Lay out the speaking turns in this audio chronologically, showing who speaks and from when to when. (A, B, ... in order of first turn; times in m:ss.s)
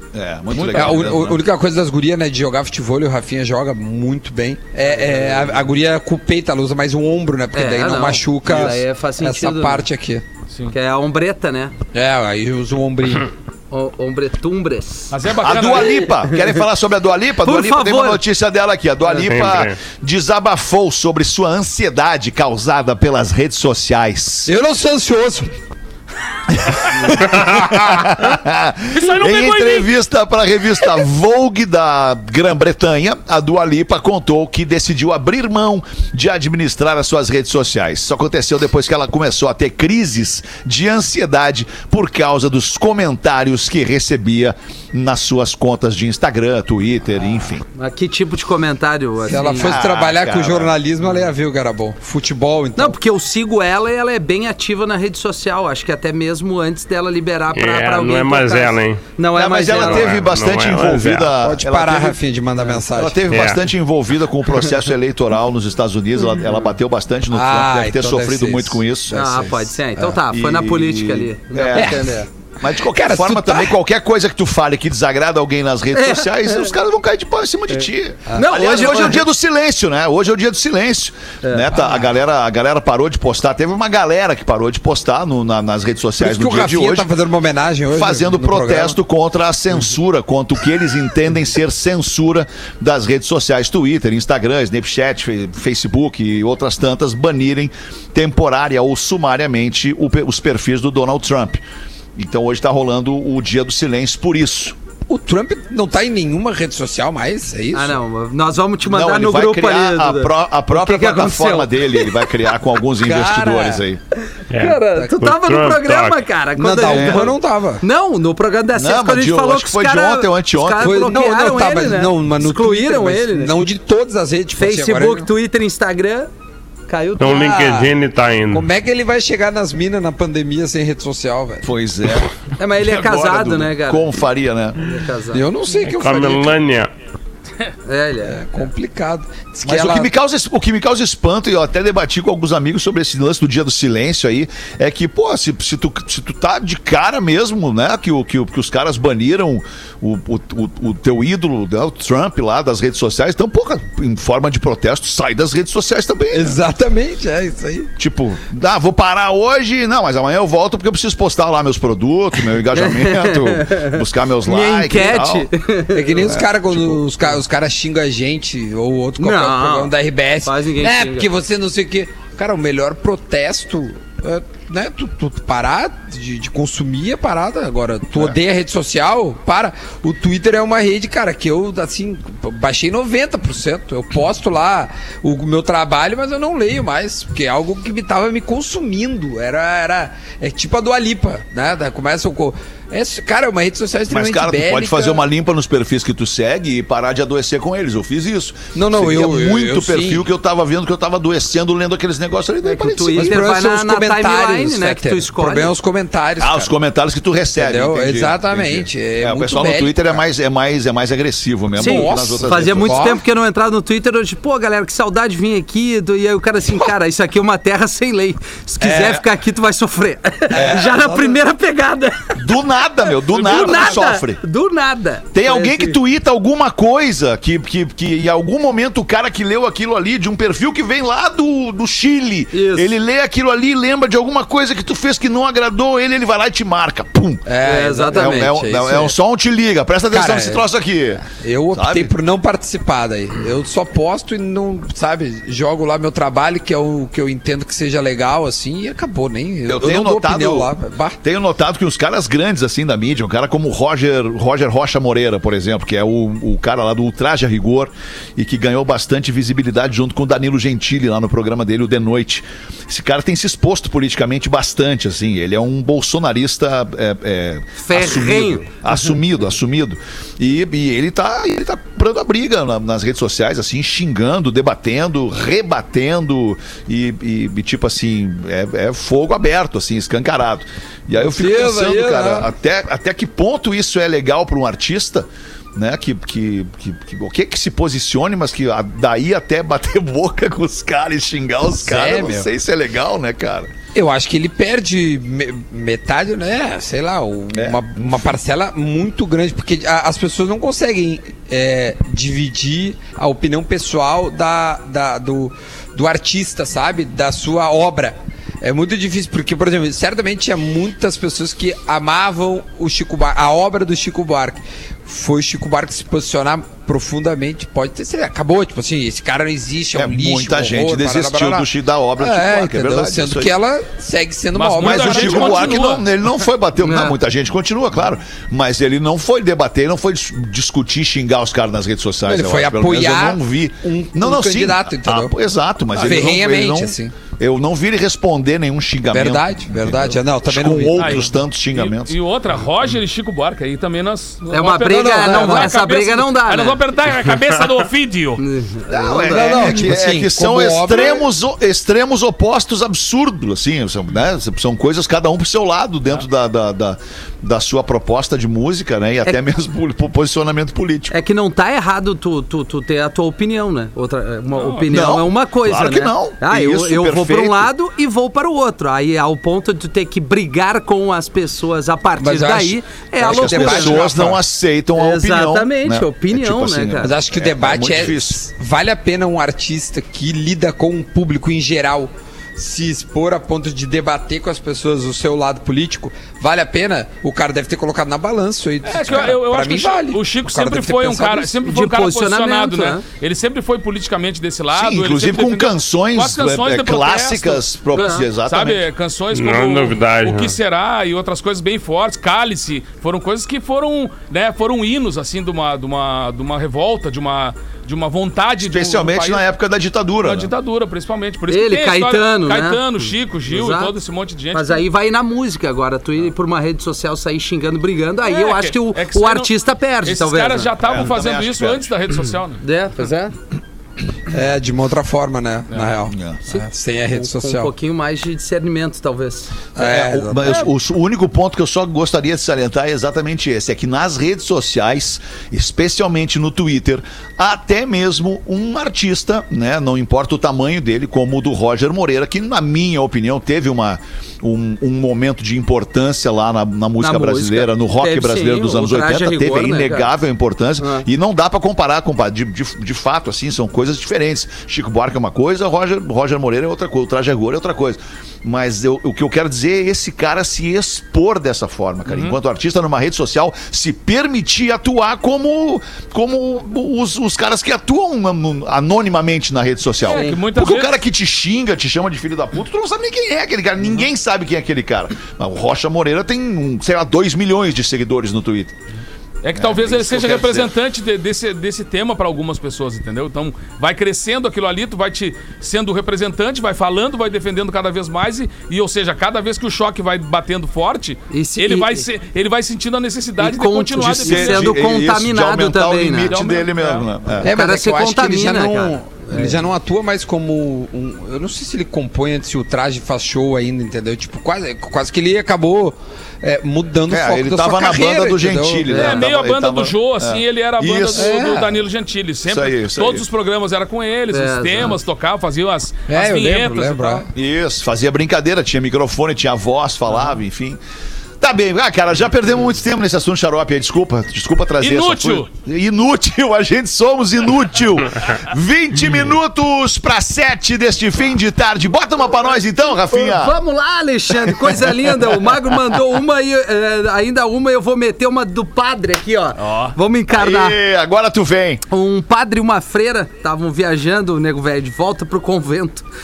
0:00.1-0:01.4 A
0:00.5-0:10.2 B
0:04.9-0:05.6 C
0:07.5-0:09.9 C
0:10.7-0:11.7 C
0:11.9-0:13.3 B
0:13.7-0:15.2 C
0:15.1-0:16.1 D
0:15.4-0:24.5 A
0:17.4-0:18.2 C
0:19.1-0:19.8 E
0:24.4-0:25.5 B
0:26.5-0:47.6 A
0:28.9-0:29.9 D
0:47.7-0:49.8 C
0:49.2-0:53.0 B
0:49.4-0:50.7 A
0:52.8-1:00.2 C
0:57.6-0:59.0 E
0:59.4-1:02.2 A
0:59.7-1:01.4 E
1:01.4-1:03.2 B
1:02.9-1:09.2 A
1:03.3-1:03.6 E
1:07.3-1:09.8 B
1:09.1-1:12.3 C
1:10.2-1:27.1 A
1:11.7-1:13.8 B
1:16.0-1:16.7 C
1:18.3-1:19.2 C
1:21.4-1:21.8 C
1:26.2-1:29.0 B
1:27.9-1:41.6 A
1:42.2-1:44.8 A
1:45.1-1:48.0 B
1:47.7-1:52.3 C
1:48.8-1:54.0 A
1:53.0-1:53.8 B
1:53.4-1:53.7 C
1:54.5-1:56.2 E
1:54.5-2:03.7 C
1:56.6-1:57.8 B
1:56.9-1:57.3 A
1:58.7-2:01.0 A
2:00.8-2:05.3 B
2:04.6-2:06.3 C
2:06.9-2:07.6 C
2:07.2-2:08.7 E
2:07.2-2:08.0 B
2:08.5-2:11.7 B
2:11.6-2:14.8 A
2:12.6-2:14.1 C
2:14.8-2:15.4 C
2:15.3-2:16.6 B
2:15.8-2:16.9 E
2:17.9-2:18.4 C
2:18.2-2:20.1 B
2:19.6-2:36.6 A
2:36.3-2:37.9 B
2:38.0-2:45.5 A
2:42.7-2:46.2 C
2:45.9-3:15.2 B
2:46.2-2:47.3 A
2:49.2-2:51.3 C
3:14.1-3:23.4 A
3:18.7-3:20.3 B
3:22.6-3:25.7 C
3:23.1-3:26.7 B
3:26.4-3:33.1 A
3:27.5-3:30.2 B
3:31.8-3:33.2 B
3:31.8-3:42.4 C
3:38.8-3:39.2 B
3:40.5-3:41.4 B
3:42.4-3:44.4 A
3:43.3-3:46.0 C
3:43.3-3:44.0 D
3:45.3-3:57.4 A
3:52.5-3:53.0 C
3:57.5-3:59.2 B
3:57.6-3:58.6 C
3:58.1-4:02.1 A
4:00.1-4:00.7 B
4:01.2-4:11.2 B
4:09.7-4:10.7 A
4:11.2-4:53.7 A
4:27.8-4:28.7 C
4:41.2-4:42.5 B
4:51.8-4:52.5 B
4:53.9-5:25.9 B
4:57.5-4:58.3 A
5:20.0-5:23.5 A
5:24.5-5:26.1 D
5:24.8-5:42.1 A
5:26.8-5:27.2 C
5:32.2-5:35.4 B
5:35.9-5:37.1 B
5:39.1-5:41.3 B
5:41.0-5:48.4 D
5:44.5-5:46.8 C
5:44.8-5:45.7 B
5:48.4-5:49.8 C
5:48.9-6:01.1 A
5:49.1-5:51.3 B
6:01.1-6:14.2 C
6:04.6-6:04.9 D
6:04.9-6:07.7 A
6:12.2-6:14.4 B
6:13.2-6:18.4 A
6:15.0-6:17.1 C
6:17.0-6:31.5 B
6:28.8-6:49.4 D
6:31.6-6:33.0 C
6:34.7-6:38.8 A
6:38.0-6:38.2 C
6:39.3-6:40.6 E
6:48.6-6:50.5 A
6:50.2-6:54.8 D
6:51.5-6:53.9 C
6:54.5-7:00.7 C
6:58.2-7:02.6 D
7:00.8-7:01.9 A
7:02.6-7:03.4 C
7:04.3-7:07.7 B
7:05.7-7:06.0 D
7:06.1-7:06.4 A
7:06.5-7:10.6 C
7:09.8-7:10.5 B
7:09.8-7:58.8 A
7:27.0-7:30.2 C
7:30.8-7:31.0 C
7:42.0-7:42.4 D
7:50.0-7:51.0 D
7:50.1-7:50.4 C
7:59.4-8:14.8 D
7:59.6-8:00.7 A
8:11.3-8:12.0 C
8:13.4-8:16.3 C
8:14.0-8:17.5 A
8:16.3-8:17.1 D
8:17.4-8:29.0 B
8:17.4-8:19.6 C
8:27.1-8:31.4 A
8:28.9-8:29.2 C
8:29.0-8:37.2 D
8:31.1-8:31.8 B
8:32.5-8:33.2 A
8:34.3-8:35.0 C
8:36.1-8:37.3 B
8:37.4-8:40.8 A
8:41.4-8:53.6 A
8:44.8-8:45.5 D
8:53.1-9:00.8 C
8:59.6-9:00.0 D
9:00.3-9:01.8 A
9:01.9-9:06.0 C